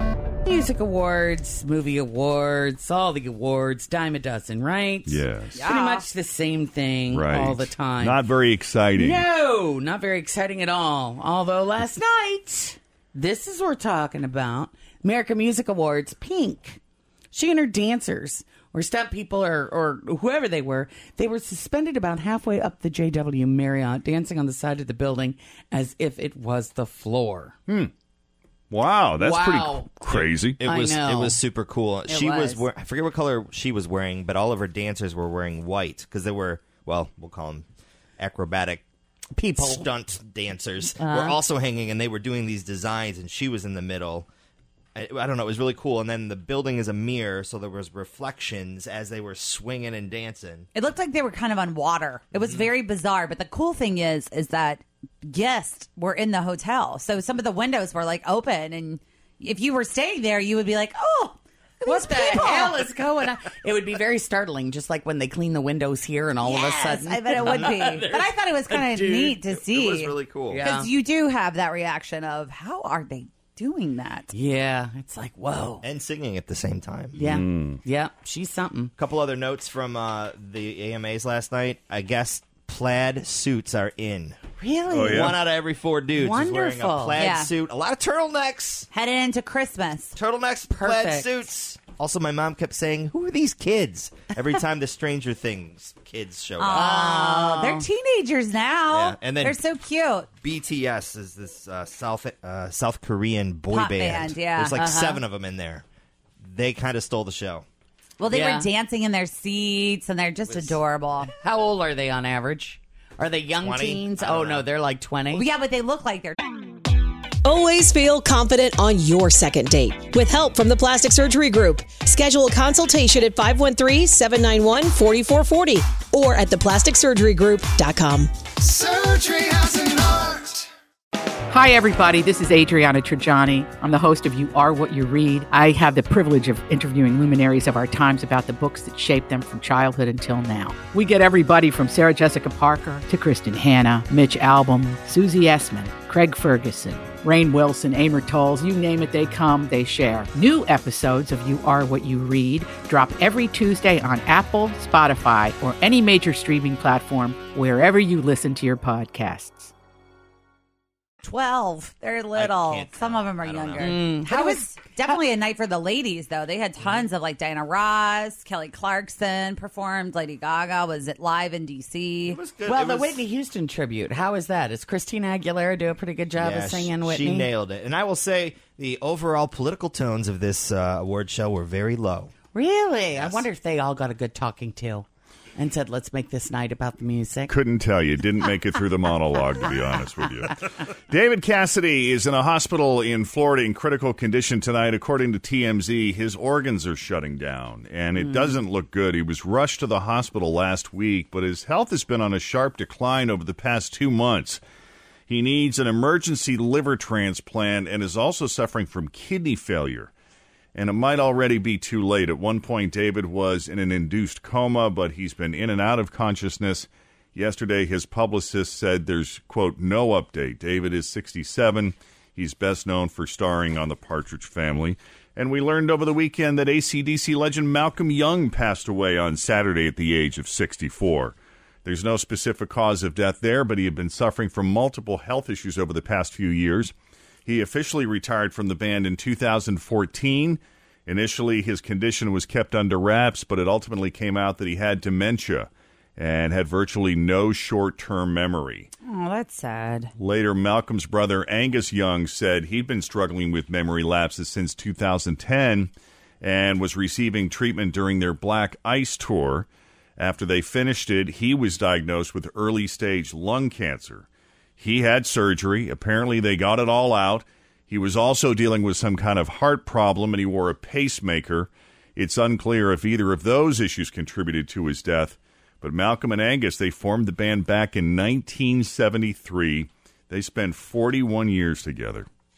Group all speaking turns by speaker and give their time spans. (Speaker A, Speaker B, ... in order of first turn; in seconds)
Speaker A: 0.4-8.2, 8.9-16.8, 17.3-27.5, 29.1-29.9, 30.6-31.4, 39.4-39.9, 40.9-41.4, 61.8-69.1, 70.5-70.9, 74.3-75.8, 77.1-78.9, 84.6-85.4, 86.1-87.2, 90.7-91.3, 96.7-97.8, 104.8-105.2, 108.3-108.7, 111.3-115.5, 163.8-165.2, 172.7-177.5, 182.5-187.5
Speaker B: 5.0-5.7, 7.1-9.3, 28.7-30.6, 77.2-77.8, 84.9-85.3, 187.5-204.6, 205.3-210.1, 210.7-236.9, 237.4-248.9, 250.2-282.3
Speaker C: 5.5-6.0, 32.1-32.6, 50.7-62.8, 66.4-74.3, 87.2-87.5, 88.9-90.1, 96.6-100.3, 103.7-104.8, 108.2-111.3, 115.3-116.4, 161.2-172.4, 249.0-250.1
Speaker D: 30.1-37.6, 38.2-38.8, 39.6-44.3, 44.9-50.7, 52.3-52.6, 67.4-67.8, 68.9-70.7, 75.8-77.2, 79.0-84.4, 85.1-88.9, 90.1-96.9, 98.9-99.6, 100.4-105.8, 106.4-107.6, 110.5-110.8, 113.6-114.6, 162.3-164.1, 172.2-173.2, 176.4-182.3, 183.2-183.4
Speaker E: 117.4-128.3
Speaker F: 128.8-130.5, 131.5-159.7